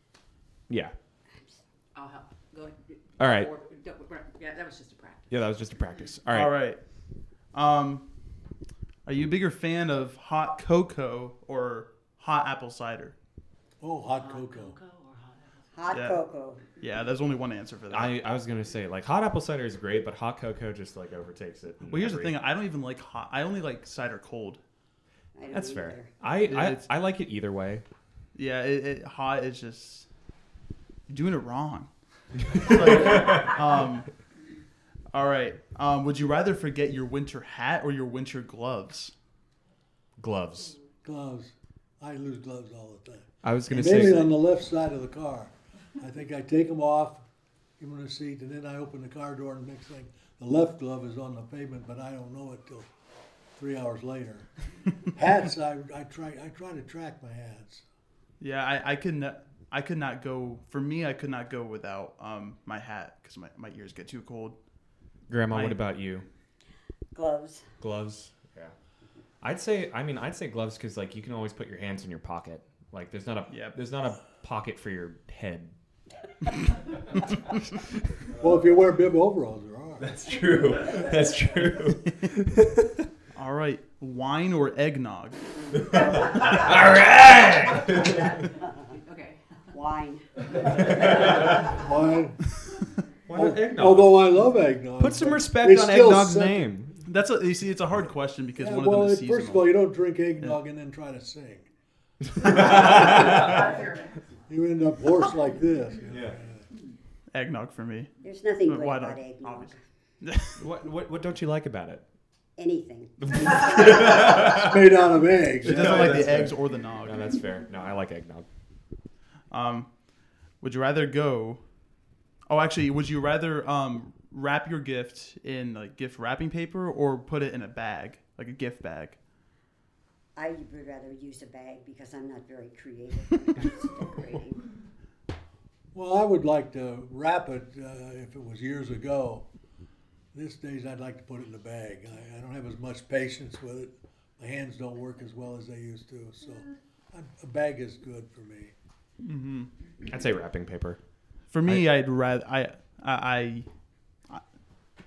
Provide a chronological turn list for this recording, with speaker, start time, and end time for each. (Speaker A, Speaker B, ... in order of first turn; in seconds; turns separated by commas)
Speaker A: 0.7-0.9, Speaker B: 1.3-1.6, Speaker C: 1.9-5.4, Speaker A: 3.2-3.5, Speaker A: 5.3-6.5, Speaker D: 6.3-6.8, Speaker D: 7.5-8.1, Speaker D: 9.1-13.2, Speaker E: 13.8-14.8, Speaker C: 14.2-15.7, Speaker B: 15.7-16.6, Speaker D: 15.9-16.2, Speaker D: 16.8-18.2, Speaker A: 17.9-22.4, Speaker D: 21.9-24.6, Speaker B: 25.4-26.1, Speaker A: 25.5-27.9, Speaker D: 26.5-26.8, Speaker D: 28.4-30.1, Speaker D: 31.1-34.1, Speaker A: 32.6-33.5, Speaker D: 35.1-39.1, Speaker A: 40.2-40.8, Speaker E: 41.0-47.2, Speaker A: 43.4-44.4, Speaker E: 47.8-52.9, Speaker E: 53.5-54.5, Speaker E: 55.1-57.8, Speaker D: 58.4-64.6, Speaker A: 65.3-66.3, Speaker D: 65.5-65.8, Speaker B: 67.2-67.6, Speaker A: 67.8-68.7, Speaker A: 69.4-75.8, Speaker D: 73.5-73.8, Speaker E: 78.4-80.1, Speaker A: 80.0-82.9, Speaker D: 83.3-85.4, Speaker A: 85.8-88.4, Speaker C: 88.9-89.4, Speaker B: 89.7-90.3, Speaker A: 90.8-91.6, Speaker E: 91.7-92.4, Speaker A: 93.3-94.2, Speaker E: 93.3-96.7, Speaker A: 95.0-97.0, Speaker D: 97.1-99.8, Speaker E: 98.6-101.7, Speaker A: 102.3-103.6, Speaker E: 102.4-103.8, Speaker C: 103.4-104.2, Speaker E: 104.5-106.7, Speaker A: 106.1-106.4, Speaker D: 107.3-108.1, Speaker B: 108.2-109.8, Speaker D: 108.7-110.6, Speaker A: 110.6-112.0, Speaker B: 112.6-113.1, Speaker A: 113.2-114.8, Speaker E: 113.8-116.5, Speaker A: 115.6-118.5, Speaker D: 115.6-117.4, Speaker D: 119.5-119.9, Speaker D: 120.6-121.6, Speaker D: 122.5-129.2, Speaker B: 130.4-134.7, Speaker E: 135.9-139.5, Speaker E: 140.3-148.7, Speaker D: 149.2-149.7, Speaker A: 150.1-151.0, Speaker D: 151.5-153.7